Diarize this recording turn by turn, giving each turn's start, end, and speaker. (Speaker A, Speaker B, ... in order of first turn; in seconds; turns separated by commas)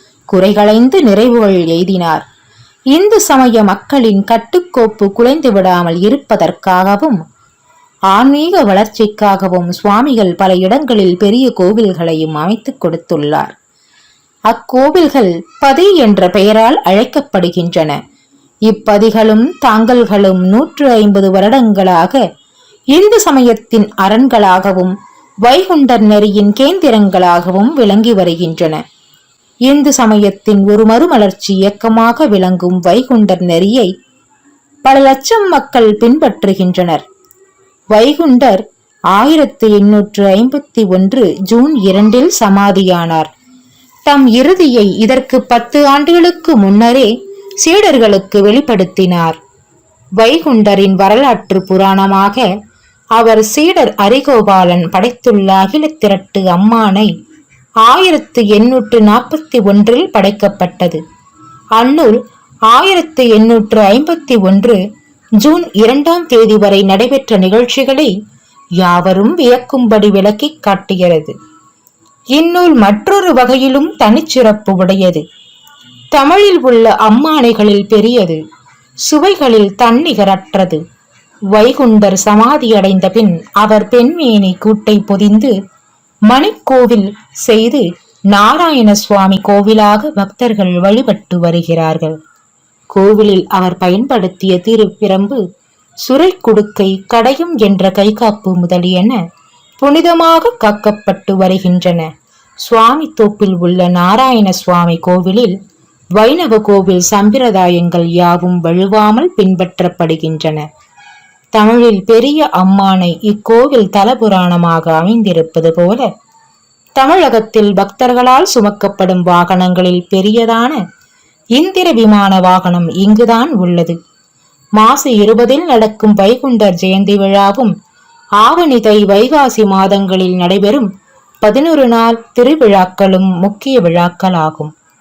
Speaker A: 0.3-2.3, Speaker A: 2.9-7.2, Speaker A: 8.1-13.5, Speaker A: 14.5-18.0, Speaker A: 18.7-22.2, Speaker A: 22.9-28.8, Speaker A: 29.7-33.9, Speaker A: 34.8-37.0, Speaker A: 37.9-43.3, Speaker A: 44.1-49.4, Speaker A: 50.2-52.5, Speaker A: 53.1-57.1, Speaker A: 57.8-61.0, Speaker A: 61.8-64.8, Speaker A: 65.4-68.1, Speaker A: 68.8-71.3, Speaker A: 72.3-75.2, Speaker A: 76.1-78.4, Speaker A: 79.0-80.8, Speaker A: 81.5-85.5, Speaker A: 86.3-92.2, Speaker A: 92.9-95.4, Speaker A: 96.0-99.2, Speaker A: 99.8-102.1, Speaker A: 102.6-105.5, Speaker A: 106.2-110.7, Speaker A: 111.5-116.1, Speaker A: 117.0-120.8, Speaker A: 121.5-124.0, Speaker A: 124.8-127.7, Speaker A: 128.4-130.9, Speaker A: 131.4-134.7